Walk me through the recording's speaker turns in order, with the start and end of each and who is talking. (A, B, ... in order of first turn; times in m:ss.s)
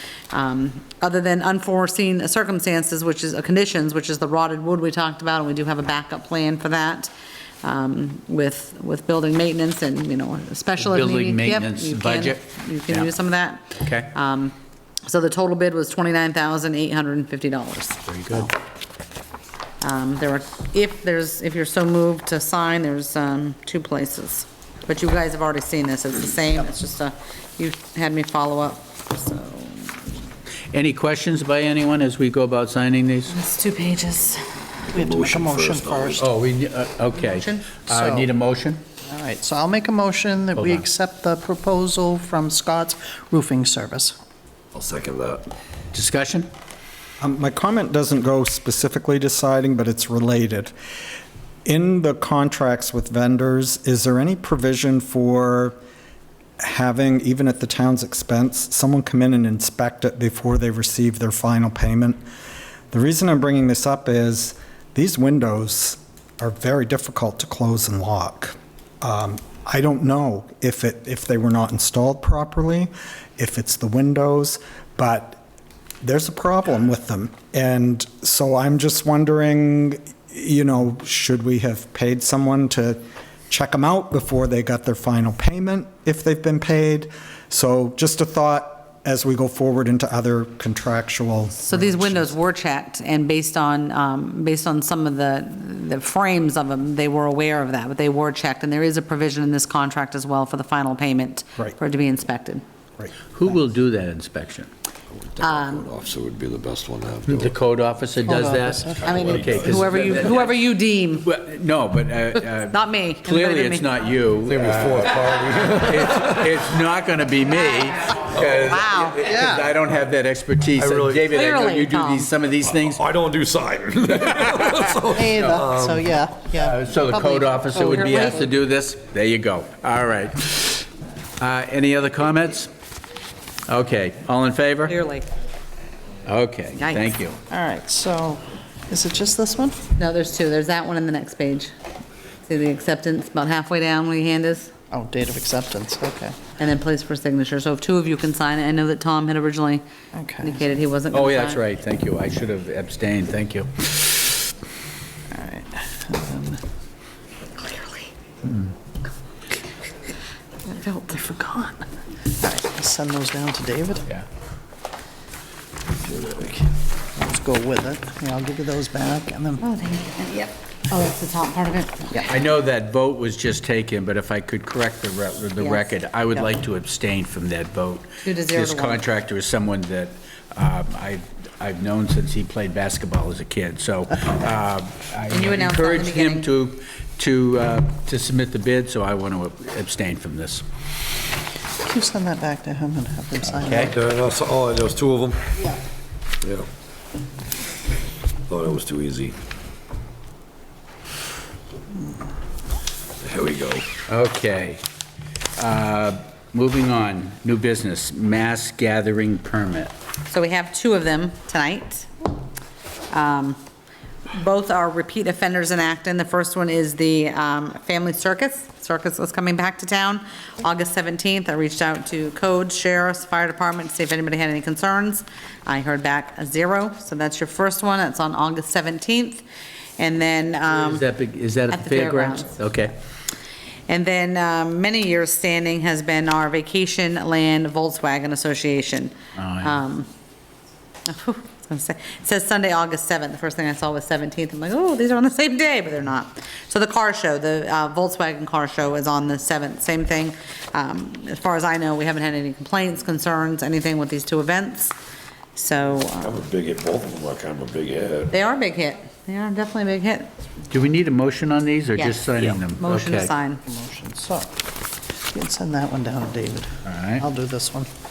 0:00.3-0:07.1 A
0:07.6-0:18.6 A
0:10.8-0:13.1 B
0:13.8-0:14.1 B
0:18.1-0:18.5 B
0:19.8-0:30.0 A
0:30.7-0:33.3 B
0:33.3-0:34.4 A
0:34.9-0:36.2 C
0:34.9-0:36.2 D
0:36.2-0:38.8 B
0:37.2-0:37.7 A
0:37.9-0:38.3 C
0:39.1-0:44.2 C
0:40.6-0:40.9 B
0:44.7-0:45.5 D
0:45.9-0:46.5 B
0:47.2-0:50.7 E
0:51.6-0:55.8 E
0:56.6-1:02.2 E
1:02.9-1:15.4 E
1:16.0-1:32.3 E
1:31.7-1:42.6 A
1:43.3-1:44.7 B
1:45.1-1:47.5 D
1:45.4-1:45.9 A
1:47.3-1:50.5 B
1:48.3-1:49.7 C
1:49.0-1:50.2 D
1:49.0-1:51.3 A
1:51.2-2:03.0 B
1:52.7-1:53.9 A
1:54.4-1:56.5 D
1:57.8-1:59.2 A
1:59.2-1:59.6 C
2:00.8-2:01.3 D
2:01.3-2:02.3 A
2:02.8-2:06.0 D
2:04.2-2:05.6 B
2:05.0-2:08.4 C
2:06.6-2:10.9 B
2:07.1-2:08.5 A
2:11.4-2:12.7 B
2:13.7-2:15.0 B
2:14.9-2:15.3 A
2:16.2-2:17.4 B
2:16.8-2:17.1 A
2:17.5-2:19.8 C
2:20.0-2:21.7 A
2:22.5-2:24.7 A
2:24.9-2:26.4 C
2:26.6-2:29.8 A
2:30.1-2:30.6 C
2:30.4-2:31.6 A
2:31.1-2:34.0 B
2:35.3-2:36.6 C
2:37.6-2:38.1 A
2:40.7-2:41.5 A
2:41.4-2:44.1 C
2:45.9-2:46.6 D
2:47.2-2:49.6 C
2:49.6-2:52.3 A
2:52.3-3:10.6 B
2:55.6-2:55.9 A
2:58.2-2:59.0 A
3:05.3-3:06.5 A
3:11.8-3:14.0 C
3:13.6-3:13.9 B
3:13.9-3:15.5 D
3:18.5-3:19.4 D
3:23.2-3:23.9 D
3:24.1-3:24.8 B
3:25.6-3:29.9 B
3:30.3-3:32.1 A
3:33.1-3:33.6 A
3:34.3-3:49.4 A
3:50.0-3:51.0 A
3:50.7-3:52.9 B
3:51.7-3:52.6 A
3:53.9-4:00.1 A
3:59.4-3:59.7 B
4:01.1-4:15.0 A
4:15.6-4:16.5 A
4:16.2-4:18.3 D
4:18.3-4:20.3 A
4:20.7-4:23.3 B
4:22.0-4:23.6 A
4:23.7-4:27.9 C
4:26.8-4:27.3 B